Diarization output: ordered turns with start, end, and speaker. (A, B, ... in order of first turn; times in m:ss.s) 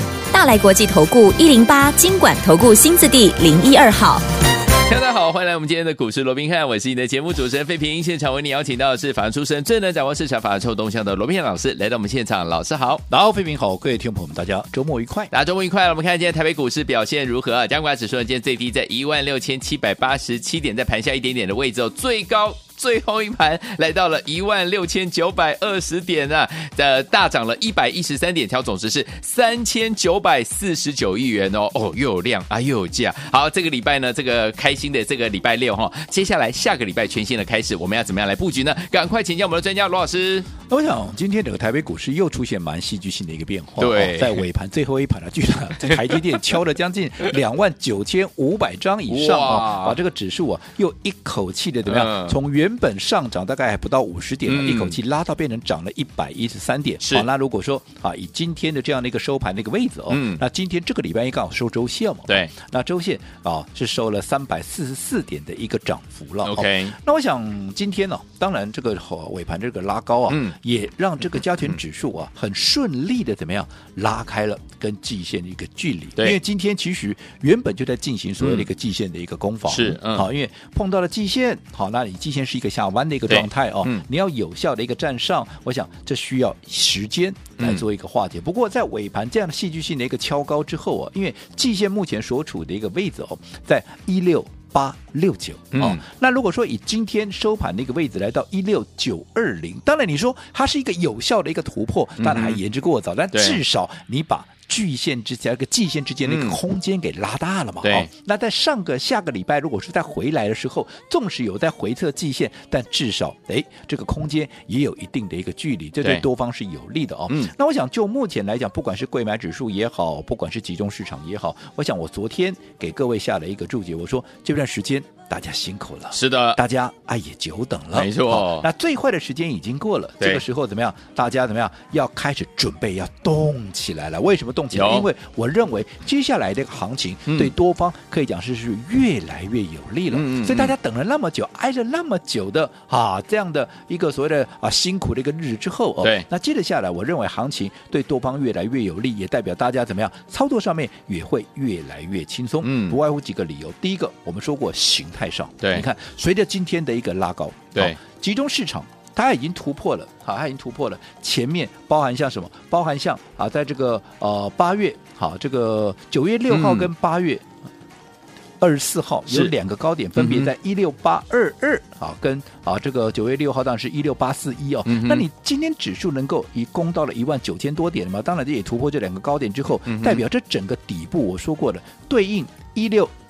0:00.3-0:04.2 A
0:04.8-0:13.0 B
0:13.1-0:15.3 C
0:15.3-0:40.5 B
0:40.7-2:47.5 C
0:43.8-0:44.5 B
0:49.1-0:50.0 B
0:51.9-0:52.4 B
0:54.5-0:55.0 B
0:57.0-0:57.3 B
1:00.1-1:00.4 B
1:02.3-1:02.5 B
1:06.4-1:07.0 B
1:10.3-1:10.6 B
1:18.4-1:18.7 B
1:19.7-1:20.3 B
1:23.3-1:24.0 B
1:35.7-1:36.0 B
1:42.2-1:42.6 B
1:43.3-1:43.6 B
1:46.2-1:46.6 B
1:47.8-1:48.1 B
2:06.1-2:06.6 B
2:07.9-2:08.7 B
2:14.7-2:15.1 B
2:17.3-2:17.5 B
2:20.1-2:20.8 B
2:26.0-2:26.3 B
2:32.6-2:33.0 B
2:35.6-2:35.9 B
2:46.5-2:46.9 B
2:48.6-3:03.1 C
2:49.3-2:49.5 B
2:50.2-2:50.5 B
2:54.9-2:55.3 B
2:59.9-3:00.2 B